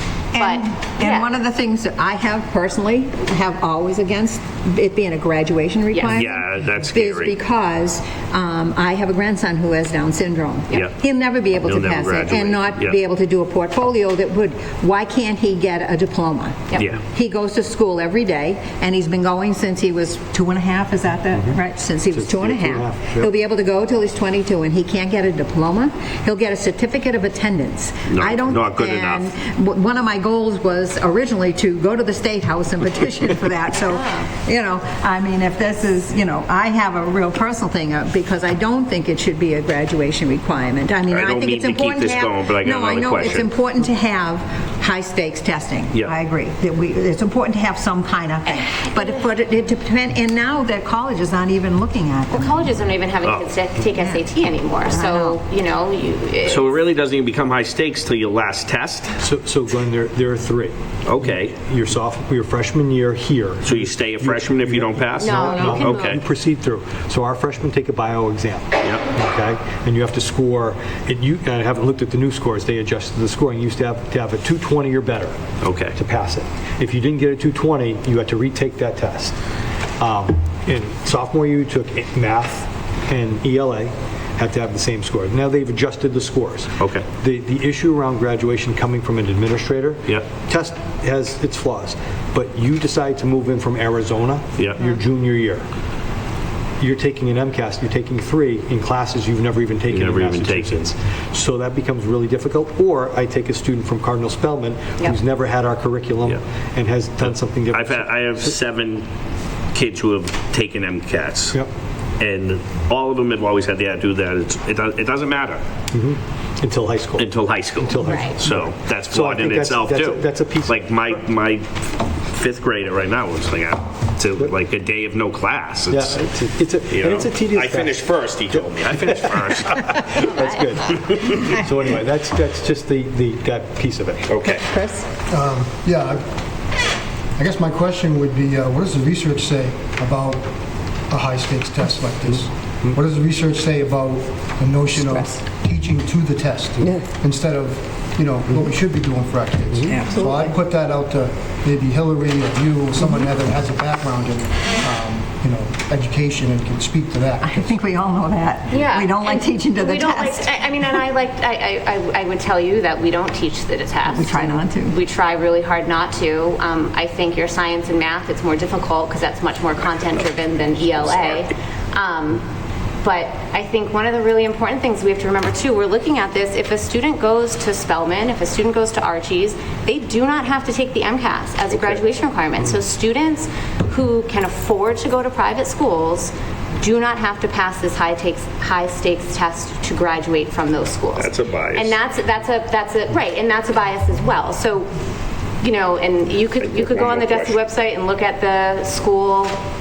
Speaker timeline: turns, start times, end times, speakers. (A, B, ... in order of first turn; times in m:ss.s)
0:00.3-0:01.3 A
0:00.3-0:52.7 B
0:05.9-0:06.2 A
0:06.0-0:07.4 C
0:10.7-0:11.0 C
0:11.5-0:13.0 C
0:16.8-0:17.0 C
0:21.3-0:21.6 D
0:22.1-0:23.3 D
0:28.1-0:29.3 C
0:33.9-0:34.3 A
0:41.1-0:43.5 C
0:48.5-0:49.2 A
0:52.3-0:56.8 A
0:53.8-0:54.2 B
0:54.9-0:55.4 B
0:56.5-0:59.2 C
0:59.2-1:15.4 D
1:01.1-1:01.6 C
1:03.6-1:06.2 C
1:05.2-1:06.2 A
1:08.8-1:09.1 C
1:15.6-1:16.0 C
1:16.0-1:19.4 D
1:20.0-1:35.7 D
1:26.8-1:27.1 C
1:30.1-1:30.4 C
1:34.6-1:34.9 C
1:36.8-1:48.6 D
1:39.9-1:40.9 C
1:47.2-1:49.1 C
1:49.7-1:51.6 C
1:52.2-1:55.6 C
1:55.9-2:01.3 D
1:57.2-2:06.3 C
1:58.0-1:58.4 A
2:05.9-2:14.3 D
2:06.9-2:10.3 C
2:10.2-2:10.7 A
2:10.9-2:11.6 C
2:14.3-2:14.7 C
2:14.5-2:15.0 B
2:15.3-2:16.2 E
2:17.4-2:20.4 E
2:21.1-2:37.8 E
2:24.9-2:25.4 B
2:29.9-2:30.5 B
2:33.0-2:33.3 B
2:37.4-2:40.5 B
2:38.7-2:52.4 A
2:44.0-2:45.0 B
2:53.0-3:14.9 A
3:01.7-3:02.0 C
3:11.2-3:12.0 C
3:15.6-3:19.6 A
3:16.6-3:17.6 C